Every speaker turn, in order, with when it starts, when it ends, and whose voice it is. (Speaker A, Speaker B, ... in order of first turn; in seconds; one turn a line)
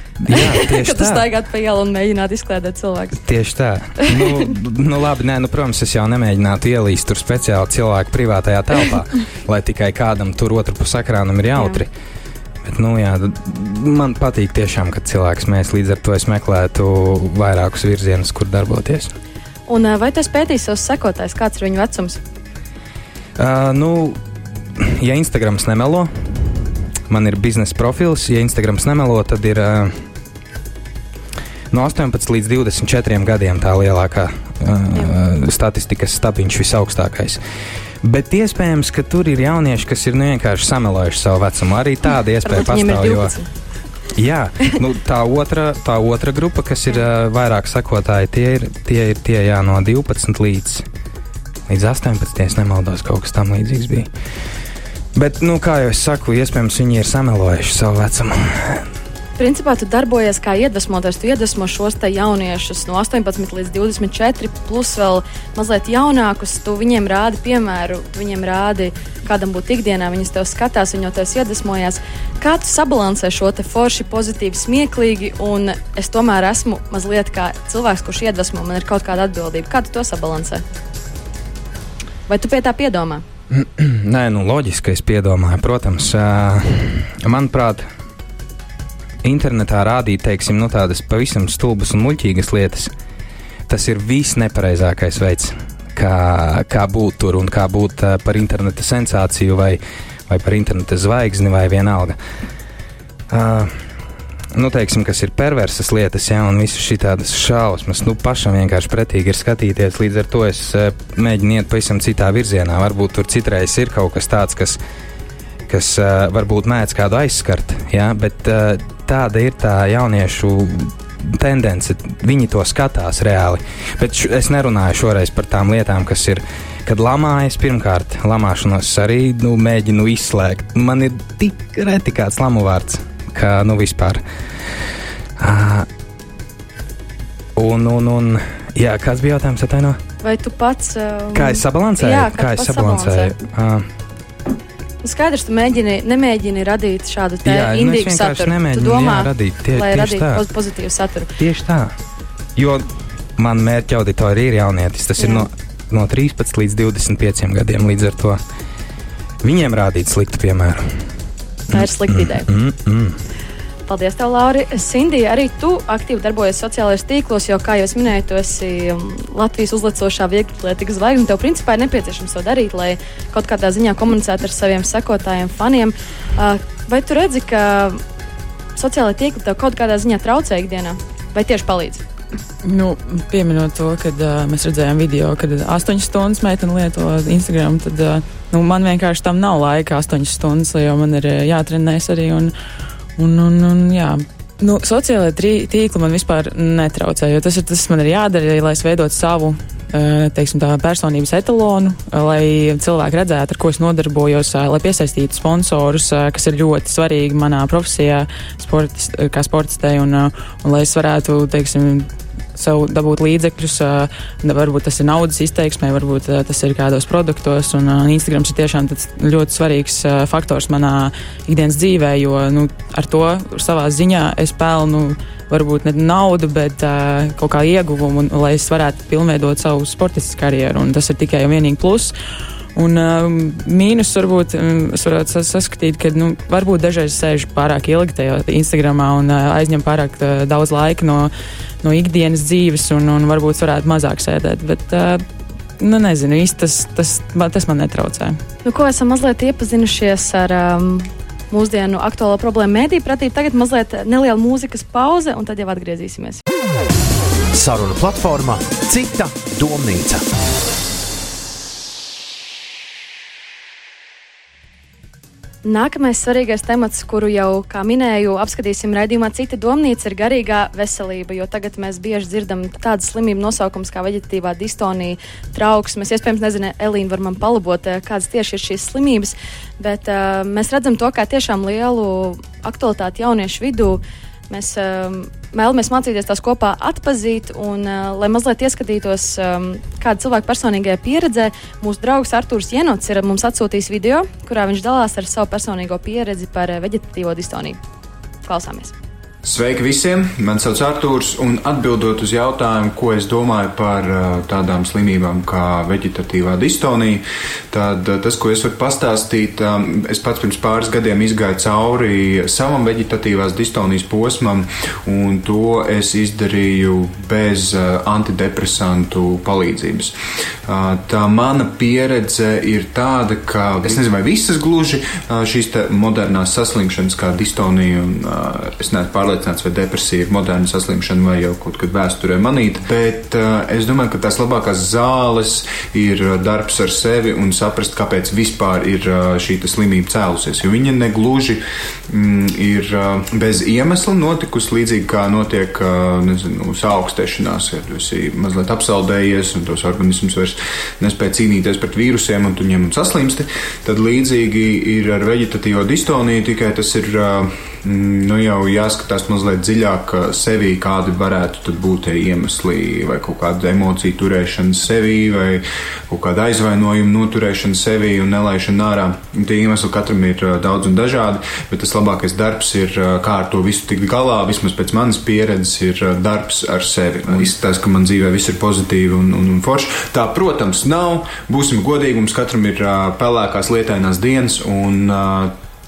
Speaker A: 0.2-1.3
Speaker B: 0.2-3.2
Speaker A: 3.2-11.9
Speaker B: 4.1-4.5
Speaker B: 11.5-11.8
Speaker A: 12.6-19.1
Speaker B: 19.7-22.2
Speaker A: 23.4-24.2
Speaker A: 24.8-30.0
Speaker A: 31.7-37.4
Speaker A: 38.0-43.3
Speaker B: 42.4-43.5
Speaker A: 44.1-50.9
Speaker A: 51.7-54.1
Speaker A: 55.1-58.8
Speaker B: 59.4-80.6
Speaker B: 82.3-83.2
Speaker A: 83.5-87.9
Speaker A: 89.2-92.9
Speaker A: 93.7-102.2
Speaker A: 103.3-103.7
Speaker A: 104.5-114.8
Speaker A: 115.7-134.2
Speaker A: 135.4-135.9
Speaker A: 137.6-140.0
Speaker B: 140.2-143.3
Speaker A: 141.3-143.8
Speaker B: 145.0-151.3
Speaker A: 147.4-150.4
Speaker A: 151.4-151.9
Speaker A: 152.6-158.4
Speaker B: 155.2-155.5
Speaker A: 159.4-160.9
Speaker B: 161.7-162.4
Speaker A: 161.7-163.2
Speaker B: 163.9-178.0
Speaker B: 178.7-182.0
Speaker C: 182.6-192.5
Speaker C: 193.2-232.1
Speaker C: 232.7-241.3
Speaker C: 241.8-245.2
Speaker C: 245.8-248.4
Speaker B: 248.6-256.4
Speaker D: 257.5-260.2
Speaker B: 265.6-297.8
Speaker B: 298.4-298.9
Speaker E: 299.4-320.1
Speaker E: 320.6-385.5